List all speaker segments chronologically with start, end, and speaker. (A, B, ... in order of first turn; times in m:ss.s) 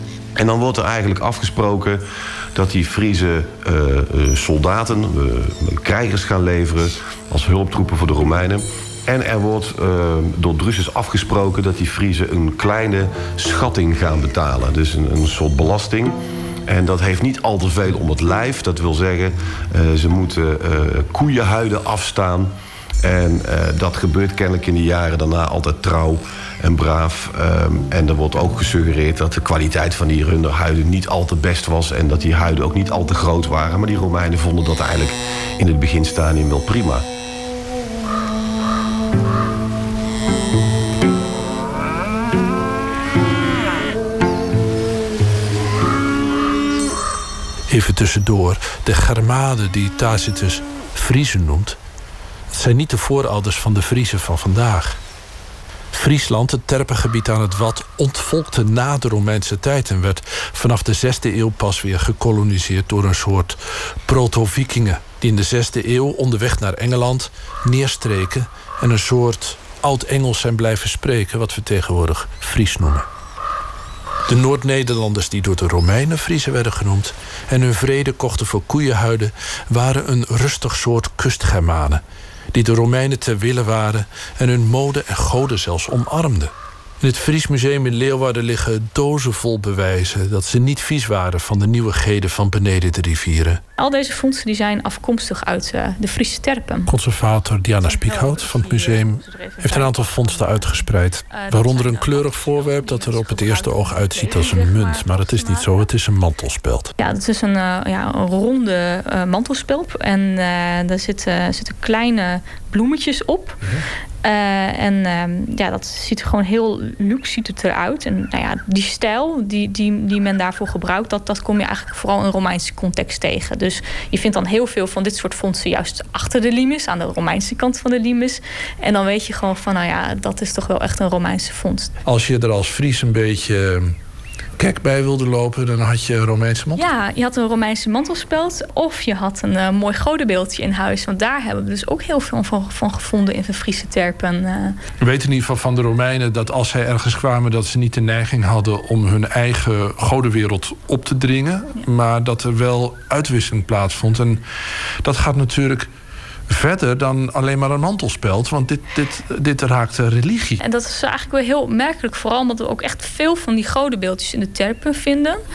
0:00.4-0:37.0 A
0:47.7-0:51.8 B
0:52.5-0:55.0 B
0:55.9-1:13.1 B
1:14.3-1:33.6 B
1:33.8-1:36.9 C
1:36.8-1:46.9 B
1:37.8-1:45.8 C
1:47.0-1:53.6 C
1:54.2-2:11.9 C
2:12.0-2:13.9 B
2:14.6-2:16.8 B
2:16.8-2:24.8 C
2:25.0-2:34.4 B
2:35.0-2:35.9 B
2:36.5-2:40.6 B
2:40.6-2:45.4 C